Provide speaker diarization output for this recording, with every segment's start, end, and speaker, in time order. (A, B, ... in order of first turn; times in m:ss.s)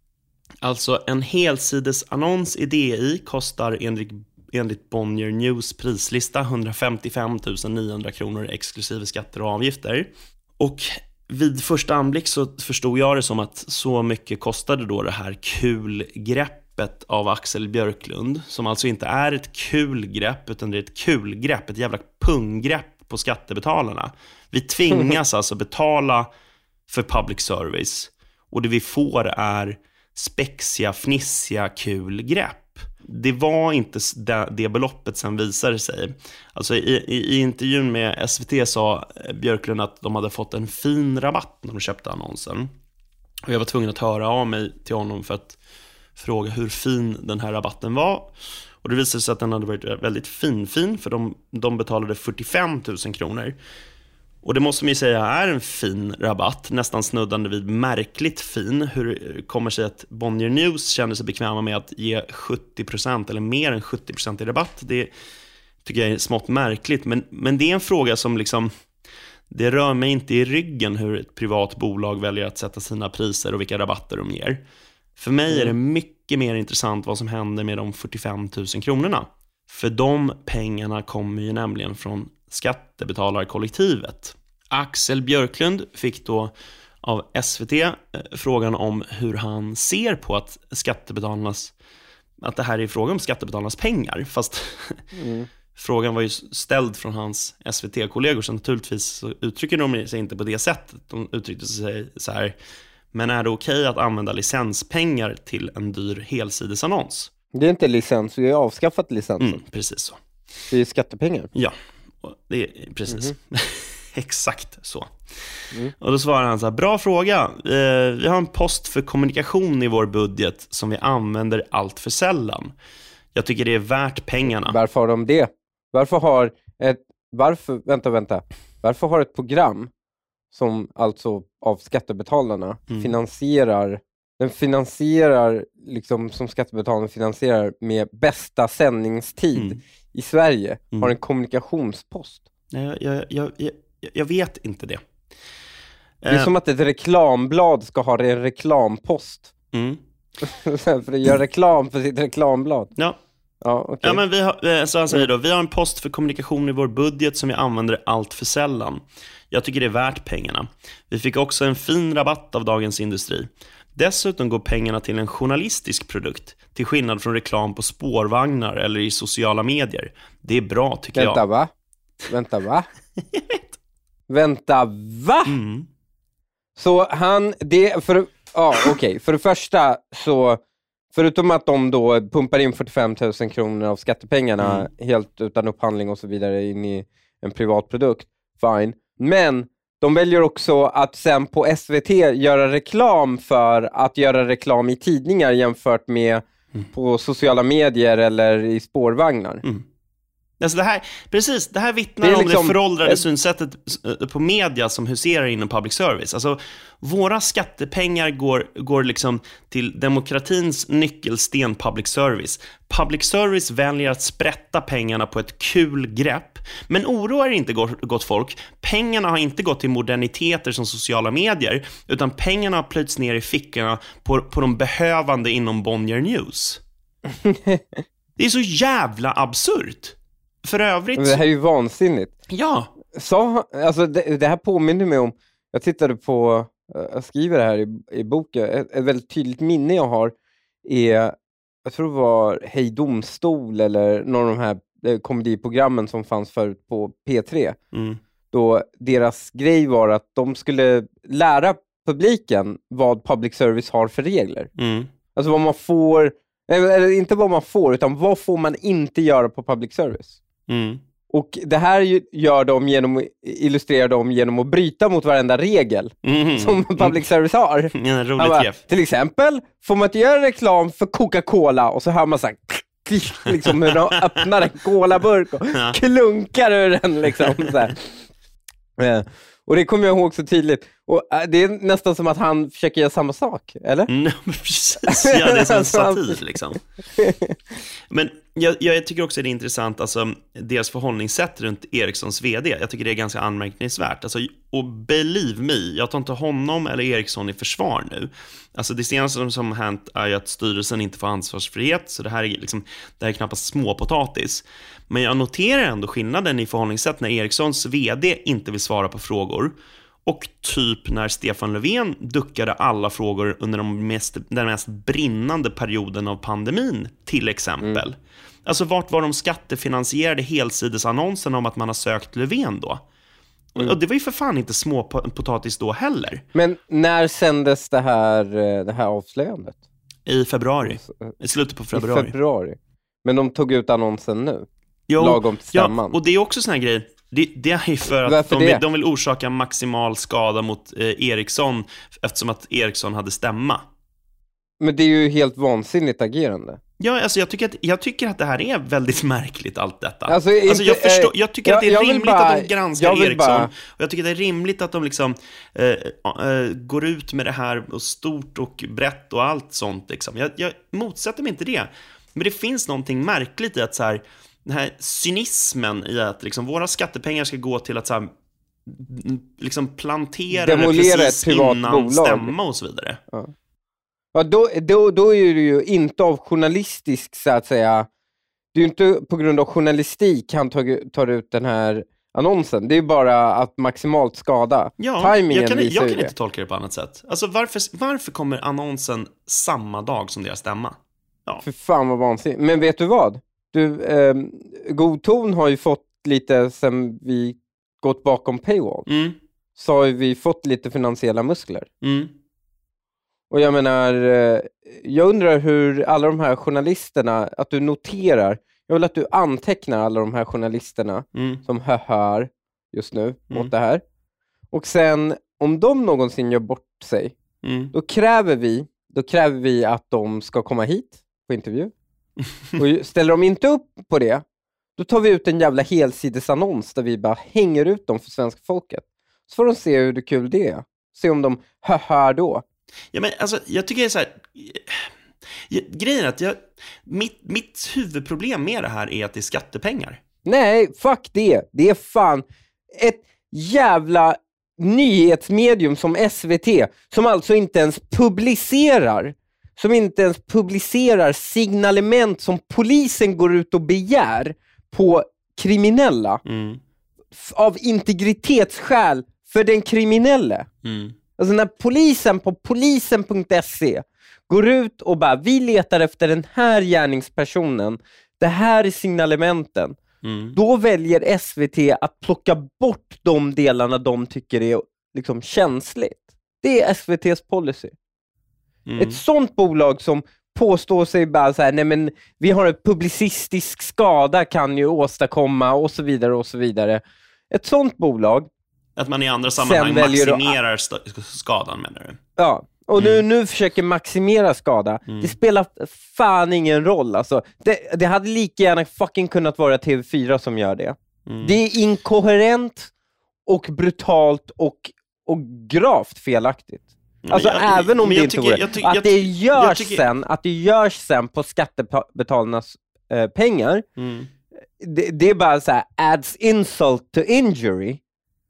0:00.6-0:26.3 A
0:26.9-0:42.7 A
0:43.5-0:45.6 A
0:46.2-0:53.6 A
0:54.4-1:05.1 A
1:05.8-1:08.7 A
1:09.5-1:14.6 A
1:15.2-1:31.7 A
1:32.4-1:35.1 A
1:35.1-1:35.5 B
1:35.7-1:42.5 A
1:43.1-1:47.3 A
1:47.5-1:49.6 B
1:49.4-1:50.2 A
1:50.7-1:51.5 B
1:51.5-1:55.1 A
1:56.0-2:02.7 A
2:03.3-2:04.8 A
2:04.6-2:09.9 B
2:10.5-2:22.4 B
2:19.5-2:19.8 A
2:22.7-2:25.0 A
2:26.2-2:26.5 A
2:26.3-2:29.5 B
2:29.7-2:30.0 A
2:30.4-2:32.9 B
2:33.6-2:34.2 B
2:34.0-2:51.4 A
2:51.1-2:51.7 B
2:52.3-2:52.9 B
2:53.3-2:53.8 A
2:54.3-2:55.5 B
2:55.4-2:55.9 A
2:56.8-3:00.6 B
3:01.1-3:19.6 B
3:04.6-3:04.9 A
3:20.6-3:46.8 A
3:22.2-3:23.2 B
3:47.3-3:48.0 B
3:48.4-3:51.4 A
3:51.2-3:52.3 B
3:52.5-3:52.9 A
3:53.1-4:07.8 B
4:07.9-4:08.2 A
4:08.5-4:14.7 B
4:14.8-4:15.1 A
4:15.4-4:20.4 B
4:20.7-4:21.0 A
4:21.3-4:38.1 B
4:26.2-4:27.2 A
4:27.9-4:28.8 A
4:33.6-4:34.4 A
4:35.7-4:36.0 A
4:37.4-4:37.6 A
4:39.0-4:44.1 B
4:44.1-4:46.8 A
4:45.0-4:46.4 B
4:47.2-4:47.6 B
4:48.1-5:09.7 A
5:10.2-5:23.0 A
5:23.7-5:26.4 A
5:26.5-5:29.8 B
5:30.3-5:32.4 A
5:30.8-5:31.3 B
5:31.9-5:34.7 B
5:35.1-5:43.8 A
5:35.2-5:36.2 B
5:38.2-5:38.8 B
5:44.8-5:46.8 B
5:47.0-6:08.3 A
5:50.3-5:53.7 B
6:08.9-6:13.2 A
6:10.5-6:12.5 B
6:14.3-6:18.1 B
6:18.7-6:26.3 B
6:25.0-6:31.6 A
6:31.6-6:39.1 B
6:39.1-6:39.4 A
6:39.8-6:41.9 B
6:42.0-6:42.3 A
6:43.5-6:54.0 B
6:51.4-6:51.6 A
6:54.7-6:57.4 B
6:57.6-6:57.9 A
6:57.9-7:01.9 B
7:02.8-7:04.4 B
7:05.0-7:12.6 B
7:13.1-7:15.1 A
7:15.7-7:20.2 A
7:20.4-7:36.4 B
7:36.4-7:36.8 A
7:37.3-7:40.7 B
7:40.8-7:41.2 A
7:41.4-7:50.0 B
7:50.2-7:50.6 A
7:50.5-7:57.9 B
7:58.9-7:59.2 A
7:59.0-8:08.5 B
8:09.0-8:12.2 A
8:09.5-8:10.5 B
8:12.4-8:22.9 B
8:13.0-8:13.2 A
8:15.1-8:15.3 A
8:21.2-8:21.6 A
8:23.5-8:33.8 B
8:27.2-8:30.0 A
8:34.0-8:34.3 A
8:34.8-8:38.0 B